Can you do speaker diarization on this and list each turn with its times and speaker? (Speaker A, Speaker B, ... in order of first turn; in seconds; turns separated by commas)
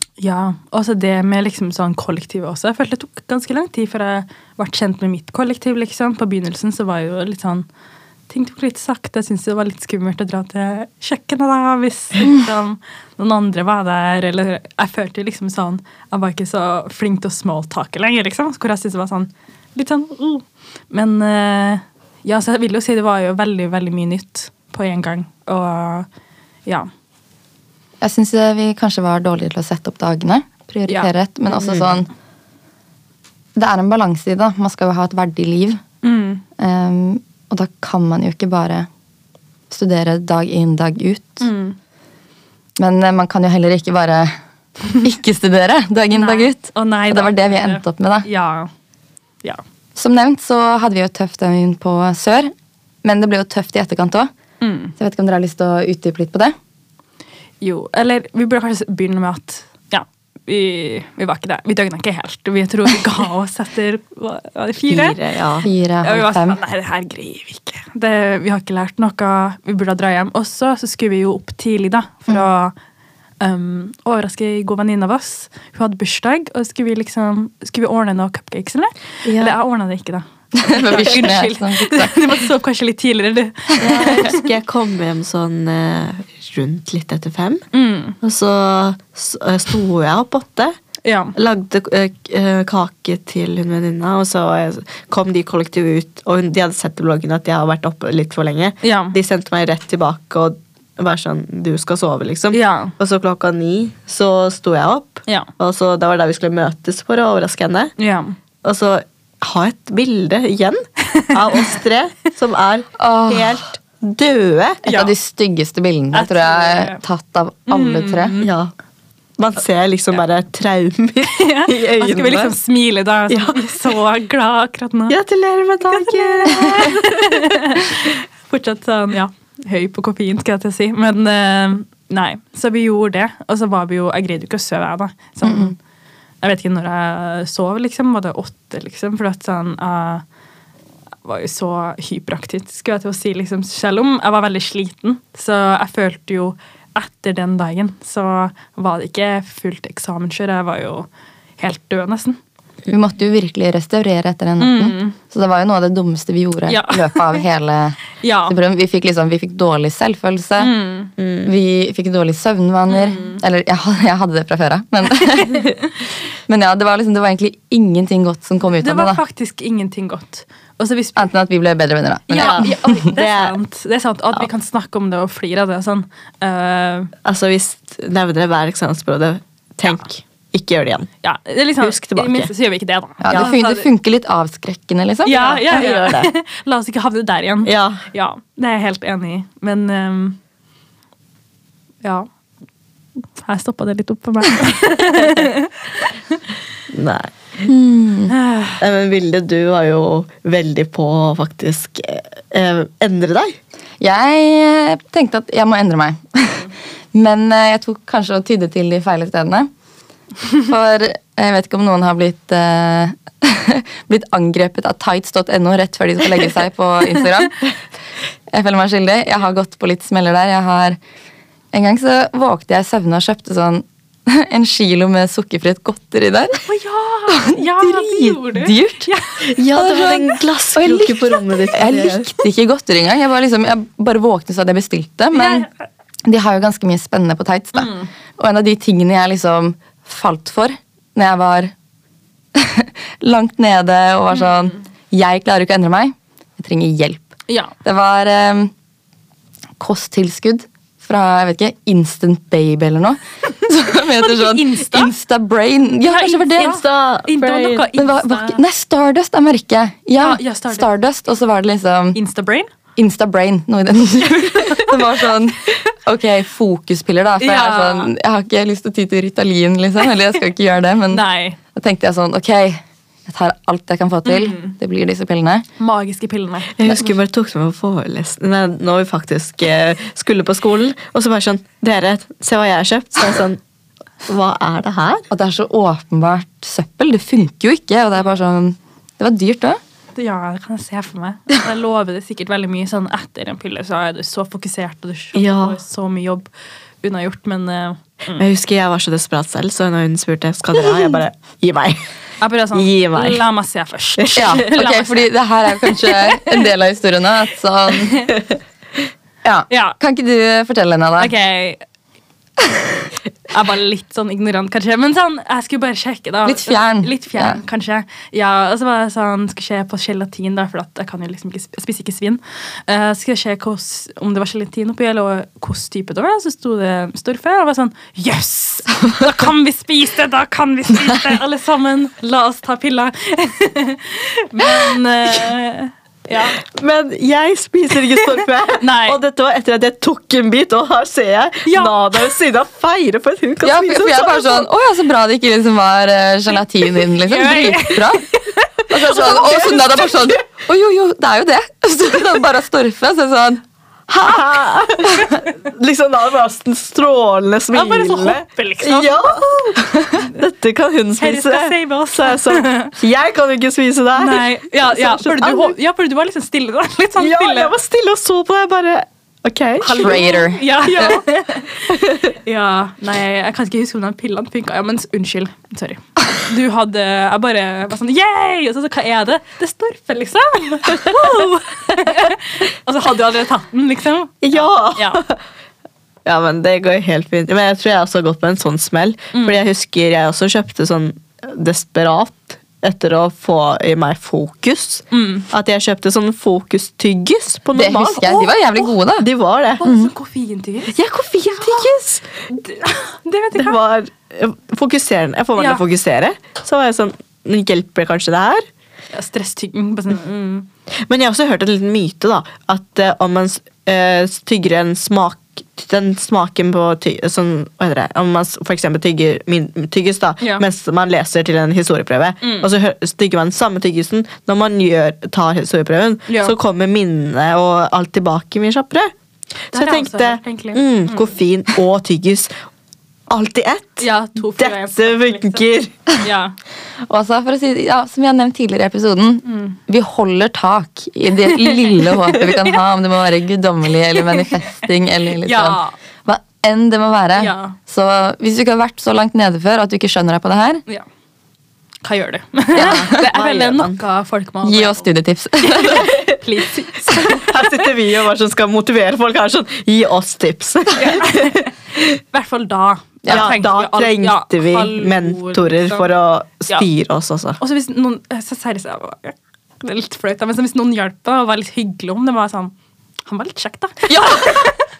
Speaker A: 0.2-7.7, Speaker A: 8.3-26.1, Speaker B: 28.0-32.1, Speaker B: 33.5-35.8, Speaker A: 36.0-36.4, Speaker B: 36.6-38.9, Speaker B: 39.7-41.5, Speaker A: 41.4-41.8, Speaker B: 42.8-44.3, Speaker B: 45.0-48.3, Speaker A: 46.1-48.7, Speaker B: 50.0-52.5, Speaker B: 53.0-54.3, Speaker A: 54.6-54.9, Speaker B: 55.0-56.5, Speaker A: 57.6-65.2, Speaker C: 64.9-65.7, Speaker B: 65.6-66.6, Speaker A: 66.0-72.7, Speaker A: 73.4-84.4, Speaker C: 79.2-79.5, Speaker B: 80.5-82.2, Speaker C: 83.8-87.6, Speaker A: 87.7-88.2, Speaker C: 88.2-90.8, Speaker A: 91.0-91.3, Speaker C: 91.3-107.9, Speaker A: 98.8-99.2, Speaker A: 102.5-102.9, Speaker A: 108.0-108.3, Speaker C: 108.6-114.8, Speaker B: 113.0-113.6, Speaker A: 114.8-115.1, Speaker B: 114.8-118.3, Speaker A: 116.1-117.0, Speaker A: 117.7-118.5, Speaker C: 118.4-118.7, Speaker C: 119.4-122.5, Speaker A: 121.2-125.2, Speaker C: 123.3-123.7, Speaker C: 125.1-127.5, Speaker A: 125.9-135.8, Speaker B: 135.4-135.7, Speaker A: 136.4-140.2, Speaker A: 141.2-151.1, Speaker A: 151.6-152.4, Speaker B: 152.9-160.7, Speaker A: 154.6-155.2, Speaker A: 156.7-157.4, Speaker A: 158.2-158.6, Speaker A: 160.6-161.1, Speaker C: 161.2-161.5, Speaker B: 161.4-165.7, Speaker A: 162.9-163.4, Speaker A: 165.3-165.7, Speaker B: 166.5-169.2, Speaker A: 168.8-171.3, Speaker B: 171.2-173.1, Speaker A: 172.3-177.1, Speaker C: 172.3-173.6, Speaker C: 177.2-181.1, Speaker A: 181.2-183.9, Speaker C: 181.8-182.5, Speaker B: 183.2-185.6, Speaker A: 185.2-190.4, Speaker C: 185.3-186.3, Speaker C: 187.6-188.0, Speaker A: 192.0-192.3, Speaker A: 193.4-195.7, Speaker C: 196.9-197.3, Speaker B: 197.7-198.3, Speaker A: 198.3-198.8, Speaker C: 198.8-203.6, Speaker B: 204.0-209.7, Speaker B: 210.6-217.6, Speaker B: 218.5-221.0, Speaker B: 221.7-226.6, Speaker A: 226.7-230.2, Speaker B: 227.3-229.1, Speaker C: 229.4-232.3, Speaker B: 229.7-230.2, Speaker B: 230.7-235.7, Speaker A: 235.3-235.7, Speaker B: 236.2-241.7, Speaker A: 237.8-238.1, Speaker B: 242.5-248.7, Speaker A: 244.3-244.7, Speaker A: 247.5-247.7, Speaker B: 249.8-256.8, Speaker A: 254.1-255.1, Speaker A: 256.0-258.6, Speaker C: 256.6-257.9, Speaker B: 257.9-262.2, Speaker A: 260.2-260.9, Speaker A: 262.1-262.7, Speaker B: 262.9-271.2, Speaker A: 264.6-264.9, Speaker A: 267.4-268.1, Speaker A: 271.1-271.6, Speaker B: 271.7-275.7, Speaker A: 274.2-274.7, Speaker A: 275.8-276.9, Speaker C: 276.8-283.6, Speaker C: 284.3-285.2, Speaker B: 285.3-289.8, Speaker A: 290.1-296.5, Speaker C: 295.3-295.8, Speaker A: 297.0-298.4, Speaker C: 298.3-302.0, Speaker A: 302.4-306.7, Speaker C: 302.7-303.4, Speaker C: 304.2-304.7, Speaker B: 304.3-308.3, Speaker A: 307.9-308.3, Speaker B: 309.4-311.3, Speaker A: 309.7-310.0, Speaker A: 311.2-311.8, Speaker A: 313.5-336.6, Speaker B: 316.4-317.6, Speaker C: 336.6-344.6, Speaker A: 338.8-339.2, Speaker A: 341.6-342.2, Speaker B: 343.6-348.3, Speaker A: 347.2-349.4, Speaker B: 348.9-355.4, Speaker C: 349.0-350.4, Speaker C: 354.2-365.7, Speaker A: 357.7-359.4, Speaker A: 361.2-362.9, Speaker A: 364.1-367.7, Speaker C: 367.2-370.2, Speaker A: 369.8-385.2, Speaker B: 370.0-371.2, Speaker C: 371.9-372.3, Speaker C: 381.0-381.3, Speaker C: 384.4-385.4, Speaker C: 386.2-398.6, Speaker A: 389.3-389.6, Speaker A: 395.1-395.5, Speaker B: 397.7-399.2, Speaker C: 399.2-399.8, Speaker A: 399.8-400.9, Speaker B: 399.8-400.1, Speaker C: 400.9-402.3, Speaker A: 401.6-402.0, Speaker A: 402.5-403.8, Speaker C: 403.5-408.6, Speaker A: 405.6-405.8, Speaker A: 409.1-410.7, Speaker C: 411.1-429.1, Speaker A: 422.4-422.7, Speaker A: 426.3-426.5, Speaker C: 429.7-432.5, Speaker A: 429.7-431.3, Speaker C: 433.3-436.0, Speaker A: 434.0-435.6, Speaker A: 436.2-436.5, Speaker B: 437.1-450.8, Speaker A: 439.4-439.8, Speaker A: 441.4-442.7, Speaker A: 444.1-444.6, Speaker A: 445.4-445.9, Speaker A: 447.4-447.7, Speaker A: 452.0-455.1, Speaker C: 452.7-454.0, Speaker B: 452.8-453.2, Speaker B: 454.6-456.1, Speaker A: 455.6-457.9, Speaker C: 455.9-456.4, Speaker C: 457.1-461.6, Speaker A: 460.9-466.1, Speaker B: 463.2-463.5, Speaker C: 463.3-467.6, Speaker A: 467.6-472.7, Speaker A: 473.2-474.8, Speaker B: 474.1-474.6